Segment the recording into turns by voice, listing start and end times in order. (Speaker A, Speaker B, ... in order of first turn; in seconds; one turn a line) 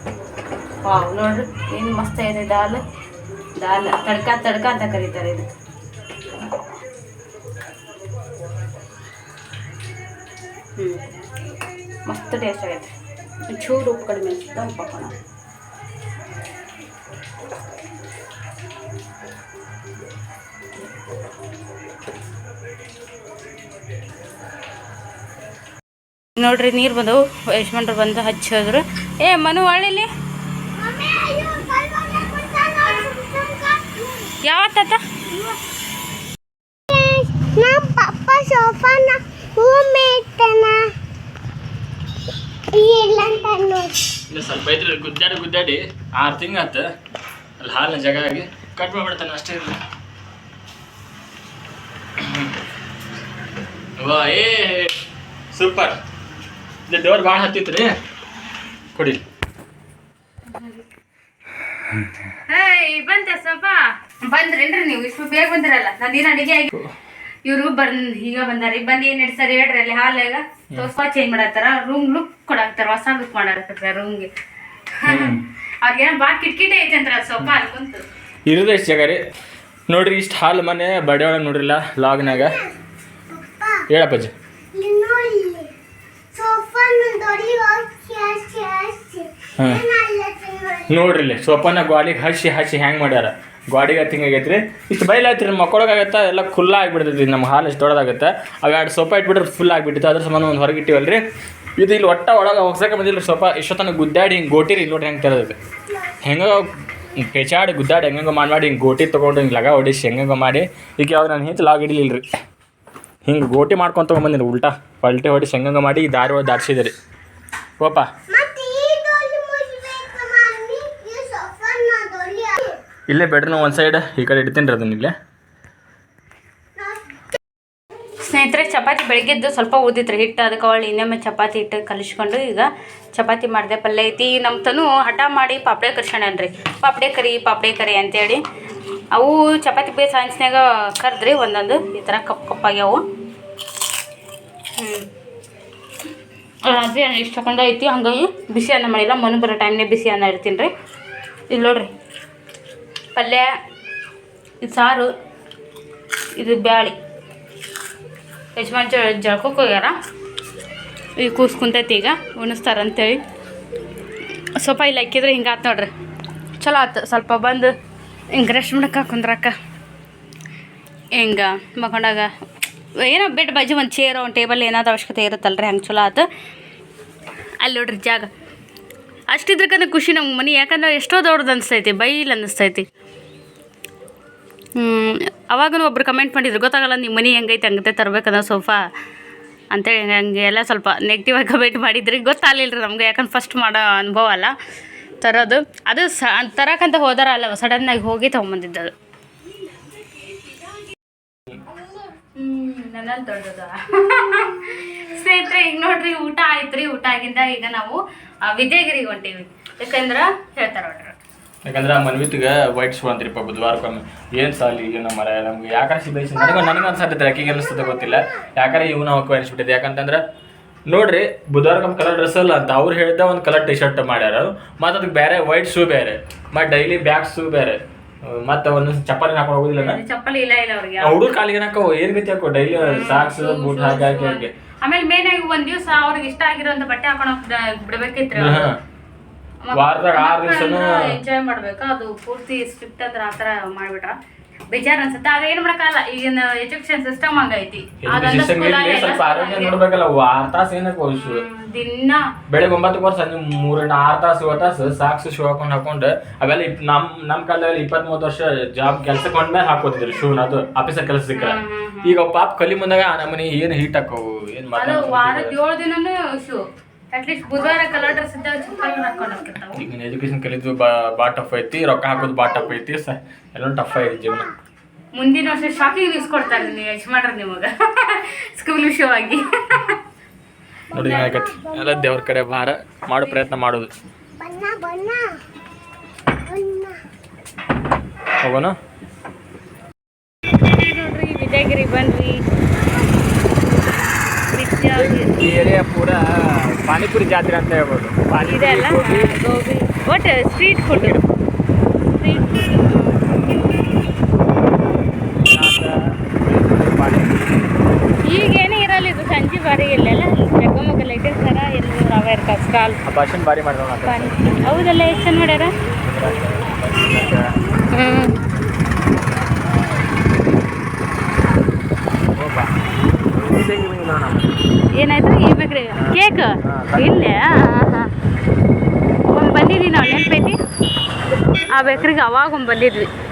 Speaker A: 0.8-2.8
Speaker A: 3.6-5.5
Speaker A: 10.8-11.1
Speaker A: 12.1-12.9
Speaker A: 13.5-15.1
Speaker A: 26.4-30.1
Speaker B: 30.8-34.3
Speaker A: 34.4-35.0
Speaker B: 36.9-40.9
Speaker B: 42.7-44.0
Speaker C: 44.3-46.9
Speaker C: 47.6-49.8
Speaker C: 52.2-52.5
Speaker C: 54.0-54.9
Speaker C: 55.5-56.0
Speaker C: 56.9-57.9
Speaker C: 58.9-59.2
Speaker A: 60.5-60.8
Speaker A: 62.5-66.7
Speaker A: 67.4-74.3
Speaker A: 74.9-78.0
Speaker C: 75.1-75.4
Speaker C: 78.5-79.2
Speaker C: 79.9-82.6
Speaker B: 82.4-82.7
Speaker B: 83.3-83.9
Speaker C: 83.9-84.3
Speaker B: 84.7-85.7
Speaker B: 86.3-91.0
Speaker C: 89.6-89.8
Speaker C: 90.9-101.2
Speaker C: 101.8-105.6
Speaker C: 106.2-112.2
Speaker C: 113.2-116.9
Speaker C: 117.8-118.1
Speaker B: 118.3-122.8
Speaker C: 123.1-125.2
Speaker B: 126.8-127.2
Speaker A: 128.2-138.4
Speaker A: 139.1-143.0
Speaker A: 144.8-145.1
Speaker A: 146.7-150.7
Speaker A: 151.5-151.9
Speaker A: 153.2-153.5
Speaker A: 154.6-155.1
Speaker A: 156.4-156.9
Speaker A: 158.6-159.9
Speaker A: 161.2-163.2
Speaker A: 164.6-165.9
Speaker A: 166.6-167.7
Speaker A: 168.3-169.6
Speaker A: 171.2-172.3
Speaker A: 173.0-176.3
Speaker A: 177.6-178.3
Speaker A: 179.3-182.8
Speaker A: 184.8-188.8
Speaker A: 189.7-194.5
Speaker A: 195.2-198.9
Speaker A: 202.3-211.2
Speaker C: 211.7-220.2
Speaker C: 220.9-230.0
Speaker A: 229.8-231.3
Speaker C: 231.0-234.5
Speaker A: 232.8-238.7
Speaker C: 238.3-238.8
Speaker A: 239.7-244.2
Speaker C: 239.7-241.2
Speaker A: 244.7-249.8
Speaker C: 248.0-251.4
Speaker A: 251.2-252.2
Speaker C: 252.5-265.6
Speaker A: 261.4-262.2
Speaker A: 264.7-269.9
Speaker C: 269.7-274.5
Speaker A: 275.1-280.0
Speaker B: 280.9-282.1
Speaker C: 280.9-283.9
Speaker B: 284.4-285.4
Speaker B: 286.4-287.0
Speaker C: 288.4-288.8
Speaker A: 290.7-292.4
Speaker A: 294.5-295.4
Speaker C: 294.9-299.5
Speaker A: 298.4-301.2
Speaker C: 300.9-301.2
Speaker A: 302.2-303.2
Speaker C: 302.3-302.8
Speaker C: 305.4-307.7
Speaker A: 308.2-313.0
Speaker C: 313.1-314.6
Speaker A: 314.1-315.7
Speaker C: 316.0-317.5
Speaker A: 317.9-318.4
Speaker C: 322.3-324.6
Speaker A: 324.9-328.1
Speaker C: 325.9-327.3
Speaker A: 329.2-330.6
Speaker A: 331.7-333.1
Speaker C: 331.8-332.1